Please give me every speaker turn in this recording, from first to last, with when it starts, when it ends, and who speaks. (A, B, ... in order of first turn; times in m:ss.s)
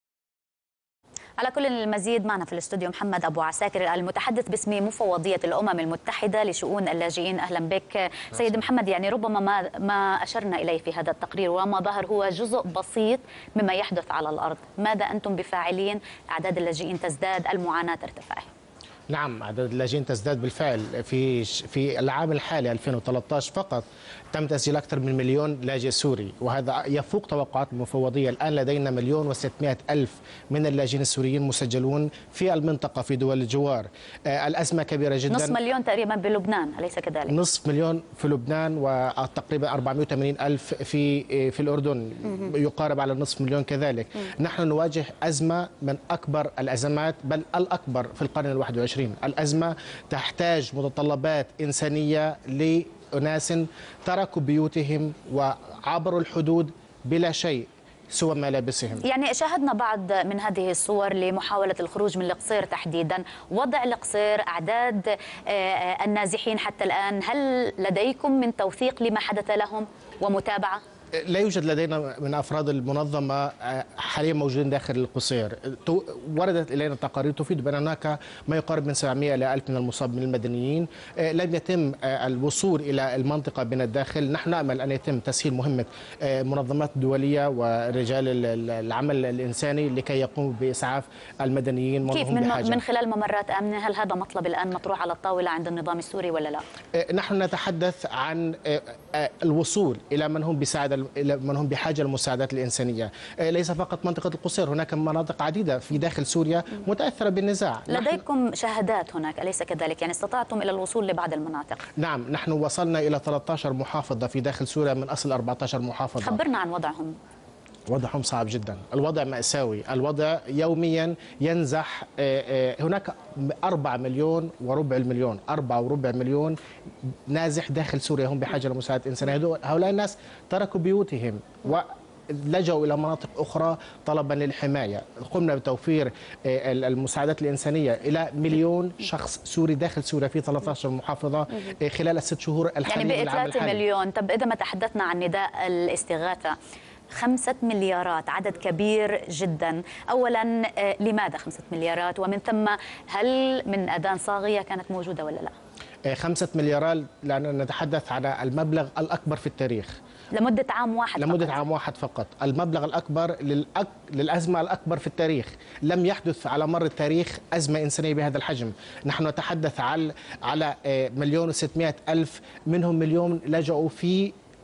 0:01.4-0:18.5 A
0:19.1-0:35.6 B
0:35.3-0:37.4 A
0:37.3-0:59.0 B
0:59.0-1:10.8 A
1:11.2-1:32.8 B
1:32.0-1:36.6 A
1:36.9-1:48.2 B
1:47.9-1:51.8 A
1:52.0-1:56.4 B
1:56.2-1:57.2 A
1:57.9-2:06.6 B
2:07.3-2:23.8 B
2:22.8-2:26.5 A
2:27.1-2:35.5 A
2:36.1-2:40.0 B
2:40.3-2:41.6 A
2:41.2-2:54.3 B